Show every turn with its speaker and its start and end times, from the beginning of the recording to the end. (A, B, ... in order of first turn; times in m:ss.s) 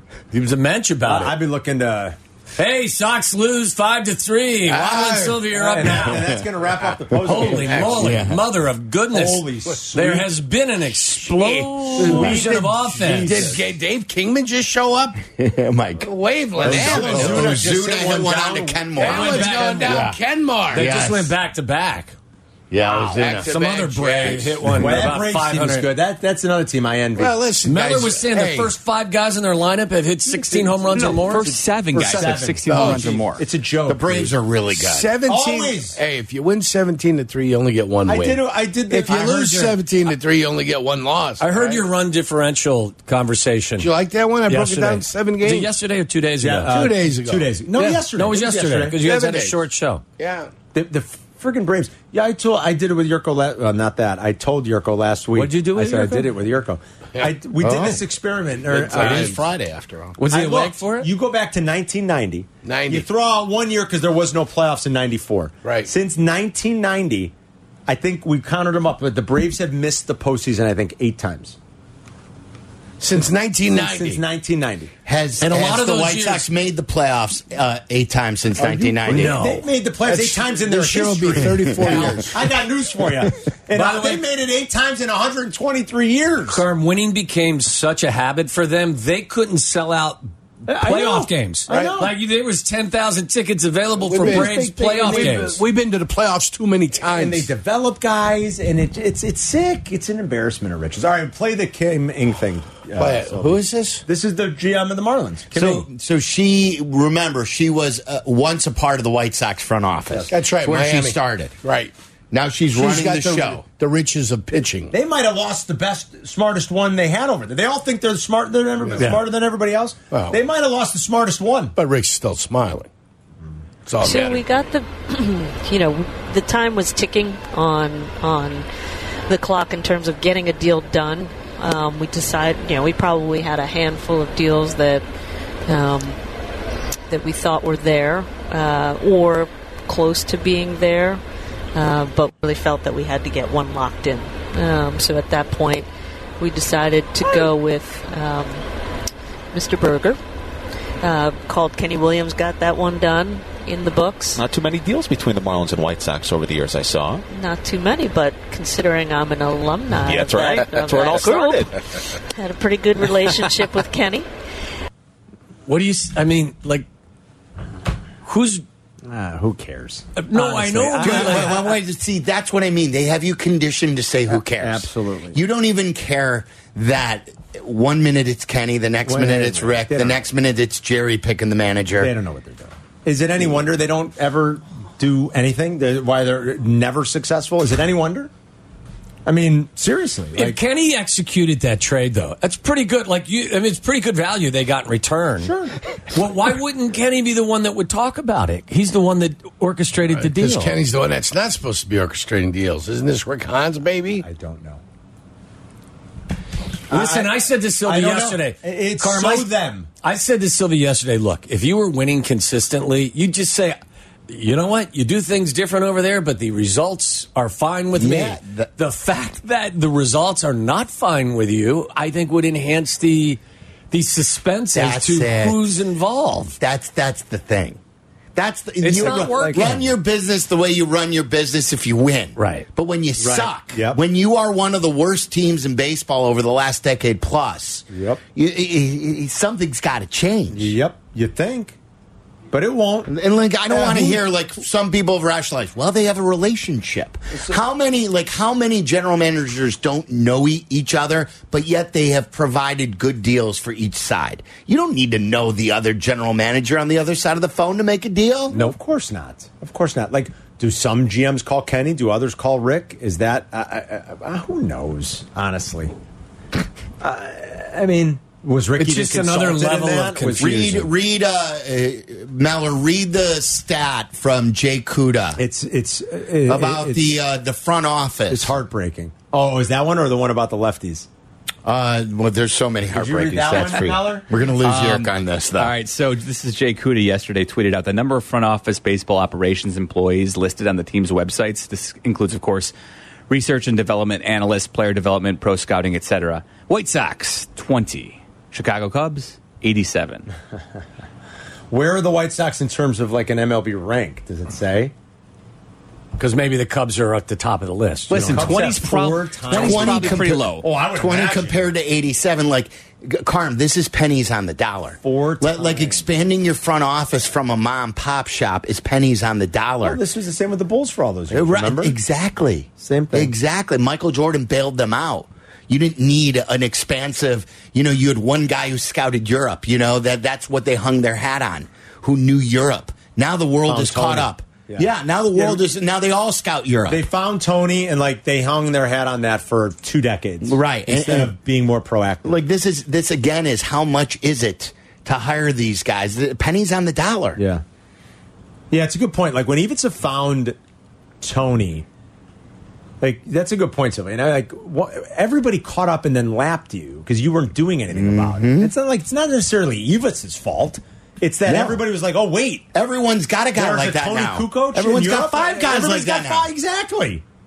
0:00.3-0:01.4 A
0:01.0-0:02.2 B
0:02.5-0:06.2 A
0:04.6-0:05.4 C
0:05.5-0:08.2 B
0:07.1-0:13.5 A
0:07.5-0:08.1 C
0:07.9-0:08.4 D
0:09.1-0:10.3 B
0:11.1-0:15.2 C
0:12.0-0:13.6 B
0:12.3-0:12.6 D
0:15.4-0:20.2 D
0:16.0-0:17.6 C
0:16.6-0:18.9 B
0:19.0-0:20.1 A
0:19.0-0:21.0 C
0:20.7-0:22.1 A
0:20.7-0:21.3 D
0:22.7-0:23.5 D
0:22.8-0:24.9 C
0:23.4-0:25.9 A
0:24.7-0:27.4 B
0:27.2-0:28.7 C
0:27.6-0:32.4 A
0:30.3-0:34.3 B
0:31.0-0:33.4 E
0:32.7-0:33.2 C
0:33.9-0:35.2 D
0:34.7-0:41.8 C
0:35.2-0:36.0 B
0:38.0-0:39.8 B
0:41.4-0:43.9 A
0:43.8-0:45.7 C
0:44.5-0:46.7 A
0:46.4-0:49.0 B
0:46.6-0:47.5 C
0:47.8-0:50.0 A
0:49.0-0:49.6 C
0:50.2-0:50.5 C
0:50.7-0:59.5 B
0:55.3-0:56.3 A
0:57.1-0:58.1 C
0:58.7-1:00.2 C
0:58.9-0:59.4 A
1:00.2-1:01.1 A
1:00.3-1:07.3 B
1:02.6-1:03.0 C
1:05.6-1:05.9 C
1:07.9-1:11.6 B
1:13.0-1:14.2 C
1:13.7-1:14.9 B
1:15.0-1:19.5 D
1:15.4-1:16.5 A
1:18.6-1:26.6 B
1:19.0-1:19.6 A
1:20.0-1:22.5 C
1:21.4-1:22.3 D
1:23.7-1:24.2 A
1:26.5-1:35.6 A
1:30.6-1:32.1 B
1:31.7-1:31.9 C
1:34.0-1:37.5 C
1:34.1-1:35.6 B
1:37.1-1:45.9 B
1:43.0-1:44.0 C
1:45.5-1:51.5 D
1:50.3-1:51.9 C
1:52.3-1:53.6 D
1:52.7-1:54.9 C
1:54.9-2:01.8 B
1:59.0-1:59.2 A
2:00.1-2:00.4 C
2:01.8-2:02.9 C
2:03.8-2:04.4 C
2:04.0-2:08.6 F
2:09.3-2:15.0 F
2:15.7-2:16.2 F
2:17.1-2:21.2 F
2:21.7-2:25.9 F
2:26.4-2:28.6 F
2:29.5-2:30.2 F
2:31.0-2:34.4 F
2:34.3-2:37.2 G
2:37.3-2:41.7 F
2:40.0-2:41.8 G
2:42.3-2:44.3 F
2:45.7-2:46.9 A
2:48.2-2:48.6 A
2:49.0-2:51.8 B
2:50.2-2:51.6 A
2:51.0-3:02.1 D
2:54.3-2:55.4 B
2:59.0-3:00.2 B
3:02.0-3:08.3 B
3:09.2-3:10.6 B
3:10.3-3:15.5 A
3:15.4-3:15.7 B
3:16.1-3:20.8 A
3:20.1-3:24.2 C
3:24.2-3:24.8 B
3:26.9-3:29.9 B
3:26.9-3:43.4 A
3:38.0-3:38.7 D
3:43.9-3:46.6 A
3:44.7-3:45.7 D
3:46.6-3:47.8 D
3:48.3-4:00.8 D
3:48.8-3:49.8 A
3:49.0-3:49.9 B
3:49.0-3:49.7 E
3:52.4-3:52.6 A
3:53.2-3:54.0 B
3:57.9-3:58.2 B
4:00.5-4:01.8 B
4:02.5-4:03.1 B
4:03.1-4:18.6 D
4:03.7-4:04.2 B
4:07.3-4:07.6 B
4:18.5-4:25.9 B
4:27.0-4:30.9 B
4:28.8-4:30.3 A
4:30.3-4:35.4 D
4:35.4-4:37.1 B
4:36.4-4:38.6 D
4:38.3-4:41.1 B
4:41.6-4:45.7 D
4:42.9-4:44.3 B
4:43.5-4:43.9 E
4:44.6-4:52.7 E
4:53.3-5:00.3 E
5:01.7-5:04.9 B
5:06.2-5:08.7 A
5:08.1-5:10.7 E
5:08.1-5:11.7 B
5:09.5-5:20.0 D
5:15.0-5:16.0 B
5:19.8-5:22.0 B
5:21.3-5:37.0 D
5:22.8-5:23.3 B
5:33.7-5:35.6 B
5:36.9-5:42.3 B
5:40.4-5:41.4 D
5:42.2-5:47.4 D
5:47.4-5:47.6 B
5:48.7-5:50.6 B
5:51.2-5:51.8 B
5:53.0-6:02.7 B
5:57.9-5:58.7 D
6:01.4-6:01.8 D
6:02.7-6:06.5 D
6:03.5-6:07.2 B